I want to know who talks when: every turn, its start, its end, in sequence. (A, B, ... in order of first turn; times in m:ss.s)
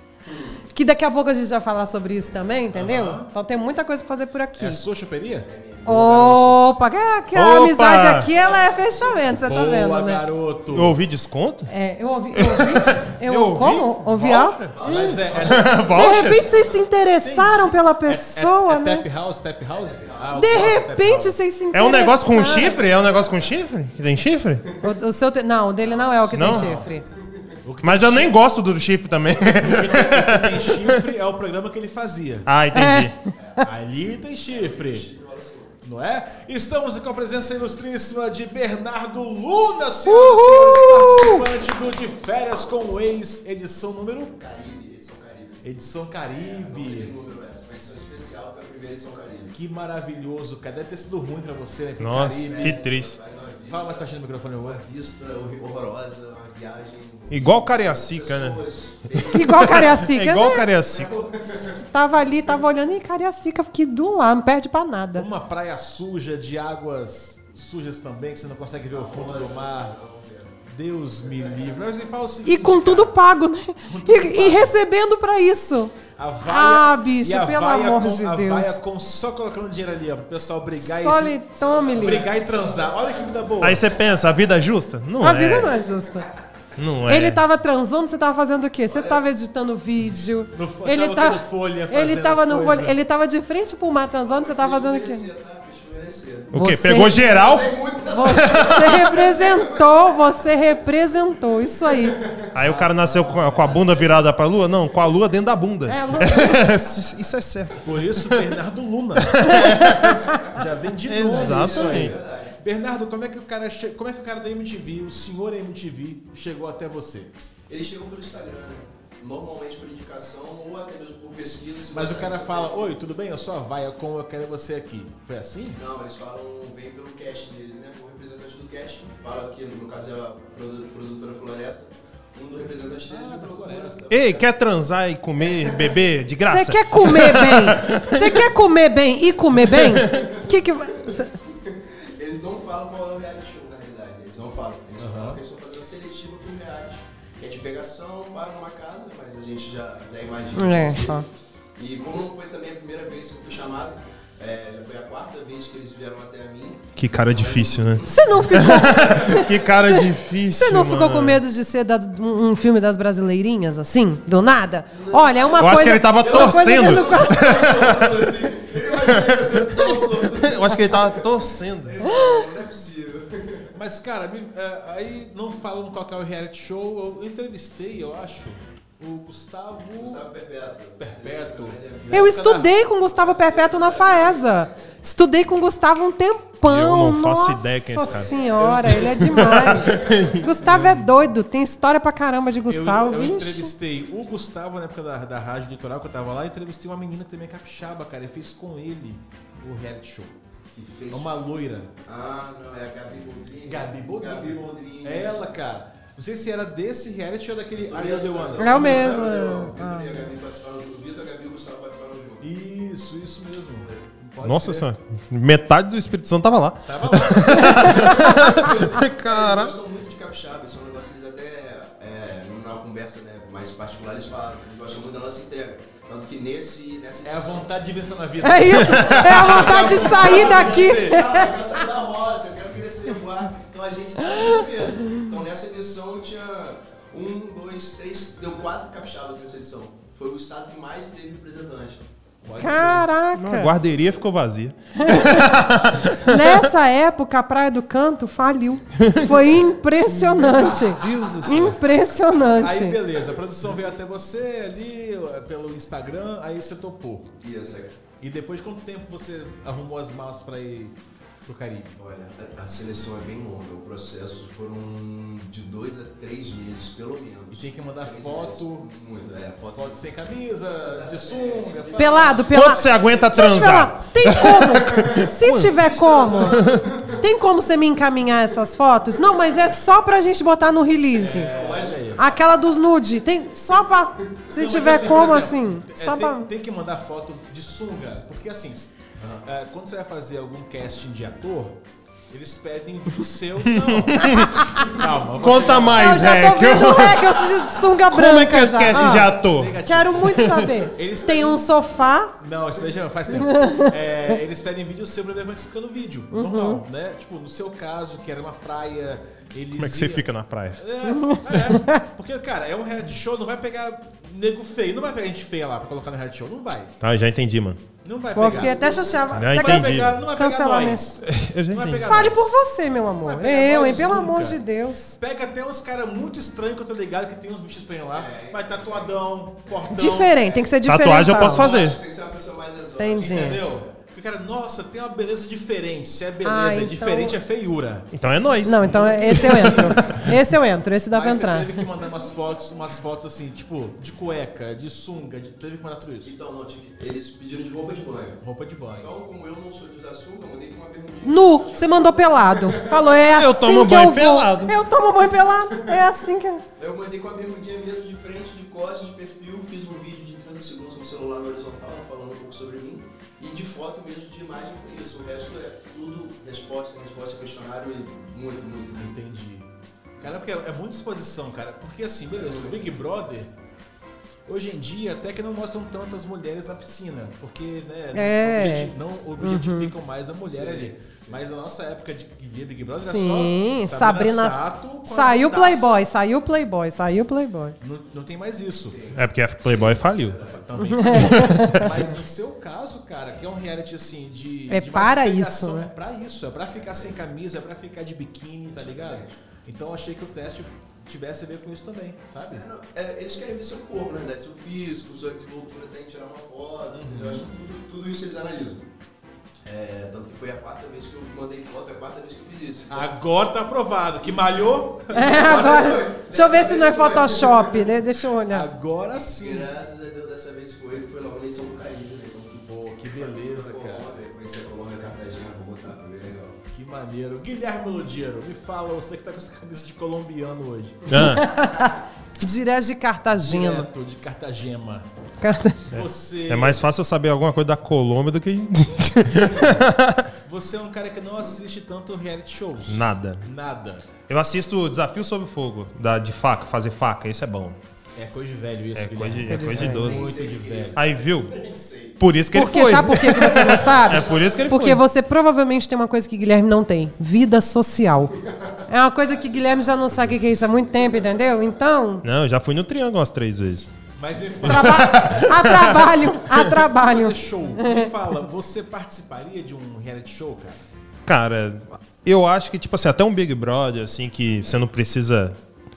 0:00.2-0:00.6 A
0:00.7-0:04.8 B
0:02.7-0:03.3 C
0:04.6-0:06.5 C
0:05.4-0:06.5 A
0:05.8-0:10.2 B
0:07.3-0:08.3 D
0:08.3-0:09.4 A
0:09.4-0:11.0 C
0:10.7-0:11.7 D
0:11.7-0:15.2 B
0:12.3-0:14.7 D
0:14.7-0:16.7 A
0:14.8-0:16.2 C
0:15.3-0:16.5 D
0:15.9-0:19.0 B
0:17.2-0:21.4 C
0:19.7-0:20.7 A
0:20.3-0:22.8 B
0:21.7-0:24.7 D
0:22.8-0:23.5 A
0:24.8-0:27.0 B
0:25.8-0:27.5 A
0:26.3-0:26.8 D
0:26.3-0:26.8 C
0:27.6-0:28.4 C
0:27.8-0:31.0 D
0:29.3-0:32.5 C
0:32.4-0:33.1 D
0:32.7-0:33.3 B
0:33.4-0:33.6 A
0:33.6-0:35.1 C
0:34.5-0:35.8 A
0:35.8-0:44.3 C
0:40.0-0:41.4 B
0:44.3-0:45.6 A
0:45.6-0:47.1 C
0:46.3-0:49.5 A
0:49.5-0:52.8 C
0:52.0-0:53.2 D
0:52.2-0:54.1 A
0:53.7-0:54.8 C
0:54.6-1:00.1 A
0:57.3-0:58.6 D
0:59.3-1:00.7 B
0:59.6-1:01.2 D
1:00.7-1:01.8 A
1:01.4-1:05.3 B
1:05.2-1:09.9 C
1:08.8-1:10.6 A
1:10.6-1:13.1 C
1:11.2-1:11.9 A
1:12.4-1:18.8 B
1:13.8-1:14.8 C
1:16.2-1:23.8 C
1:20.7-1:22.3 B
1:21.6-1:23.9 A
1:23.6-1:25.7 D
1:25.2-1:26.3 B
1:26.8-1:27.4 D
1:27.1-1:35.3 B
1:28.9-1:29.2 A
1:30.5-1:32.9 C
1:34.2-1:39.8 A
1:36.5-1:39.0 D
1:36.5-1:37.2 B
1:38.1-1:42.2 B
1:42.0-1:42.5 A
1:42.5-1:48.5 D
1:42.6-1:44.0 C
1:45.9-1:46.6 B
1:47.8-1:57.3 C
1:49.2-1:50.1 D
1:49.4-1:50.5 B
1:51.1-1:52.1 D
1:51.3-1:52.6 A
1:57.7-2:03.0 A
2:01.9-2:05.8 C
2:05.8-2:14.5 A
2:13.0-2:14.0 C
2:14.1-2:18.5 D
2:15.4-2:16.0 A
2:16.4-2:21.3 B
2:19.7-2:20.2 D
2:19.9-2:39.4 A
2:25.0-2:25.4 C
2:30.5-2:31.2 B
2:37.0-2:41.4 D
2:38.1-2:47.6 B
2:44.9-2:53.7 A
2:45.5-2:48.3 D
2:49.0-2:52.0 D
2:52.0-2:52.5 B
2:53.7-3:00.3 C
2:59.9-3:02.4 A
3:01.0-3:02.8 C
3:02.1-3:13.7 B
3:03.0-3:04.8 A
3:06.6-3:10.9 D
3:08.0-3:09.1 A
3:08.6-3:09.8 C
3:09.8-3:10.4 A
3:10.6-3:11.0 C
3:12.7-3:20.3 C
3:20.7-3:21.3 A
3:21.1-3:21.9 C
3:22.0-3:25.5 A
3:23.6-3:29.4 C
3:27.8-3:32.5 A
3:28.6-3:30.2 B
3:32.4-3:34.9 C
3:33.7-3:34.0 A
3:34.4-3:39.8 D
3:36.8-3:37.9 C
3:37.4-3:38.7 B
3:37.8-3:47.6 A
3:47.2-3:51.5 C
3:48.4-3:51.6 B
3:48.7-4:02.0 A
3:54.3-3:54.6 B
4:02.4-4:03.1 C
4:02.6-4:03.7 B
4:03.4-4:06.7 D
4:05.0-4:05.7 B
4:06.2-4:13.0 B
4:09.0-4:09.5 D
4:10.1-4:11.8 D
4:12.6-4:17.3 C
4:17.4-4:17.9 A
4:18.2-4:22.0 C
4:22.0-4:30.0 A
4:27.5-4:28.8 C
4:29.7-4:32.5 C
4:30.8-4:33.7 A
4:32.0-4:36.6 B
4:32.5-4:35.8 D
4:35.7-4:37.2 A
4:36.4-4:36.9 D
4:37.2-4:41.5 B
4:41.2-4:42.2 C
4:41.3-4:42.4 A
4:42.2-4:46.5 B
4:44.5-4:51.8 C
4:52.3-4:56.3 C
4:53.7-4:57.5 D
4:55.9-5:02.3 B
4:58.1-4:59.8 D
4:58.9-5:01.7 C
5:00.3-5:00.7 D
5:02.4-5:16.9 C
5:03.4-5:03.9 B
5:06.3-5:06.8 B
5:09.8-5:10.8 D
5:11.0-5:12.0 B
5:17.0-5:17.8 D
5:18.0-5:22.6 C
5:18.3-5:21.2 B
5:18.4-5:19.3 A
5:19.3-5:20.2 D
5:21.2-5:22.0 D
5:21.8-5:25.2 B
5:23.2-5:24.6 C
5:25.1-5:30.5 C
5:28.1-5:29.1 A
5:29.6-5:30.6 A
5:29.9-5:31.7 B
5:30.8-5:32.0 D
5:31.2-5:33.8 A
5:33.0-5:33.6 B
5:33.2-5:38.1 C
5:36.4-5:37.4 B
5:38.1-5:40.3 D
5:38.6-5:41.9 B
5:38.8-5:40.4 C
5:41.1-5:46.3 C
5:42.0-5:42.6 A
5:46.2-5:48.4 A
5:48.4-5:49.1 C
5:49.0-5:53.3 A
5:51.2-5:56.6 B
5:53.3-5:54.8 D
5:56.8-6:09.1 A
6:09.0-6:13.5 C
6:12.3-6:12.9 A
6:14.5-6:26.0 C
6:18.1-6:19.9 B
6:20.5-6:21.4 A
6:23.0-6:27.8 B
6:27.8-6:29.0 C
6:28.8-6:31.0 A
6:29.1-6:30.4 D
6:30.4-6:42.6 C
6:30.8-6:32.0 B
6:31.1-6:32.0 D
6:34.7-6:35.9 B
6:36.7-6:37.2 A
6:38.8-6:39.4 A
6:42.5-6:48.9 A
6:46.9-6:47.5 C
6:49.7-6:53.1 A
6:52.9-6:56.0 C
6:54.2-6:58.0 A
6:55.1-6:58.7 B
6:58.5-6:59.7 C
6:59.2-7:06.6 A
7:02.7-7:04.1 C
7:06.7-7:11.1 C
7:11.1-7:11.4 D
7:11.1-7:13.9 B
7:13.4-7:15.0 C
7:15.4-7:15.9 B
7:15.9-7:16.8 C
7:15.9-7:20.3 D
7:19.5-7:19.8 C
7:20.4-7:24.1 C
7:22.9-7:23.4 D
7:24.3-7:27.8 D
7:28.2-7:31.0 C
7:28.9-7:30.3 D
7:29.5-7:30.1 B
7:30.0-7:32.2 A
7:30.9-7:31.5 D
7:32.2-7:35.0 D
7:32.5-7:38.3 B
7:33.4-7:34.7 A
7:38.5-7:41.6 A
7:38.9-7:42.2 B
7:42.2-7:43.9 D
7:44.2-7:45.2 C
7:44.6-7:46.7 D
7:44.6-7:48.1 B
7:46.6-7:50.8 C
7:51.2-7:55.6 D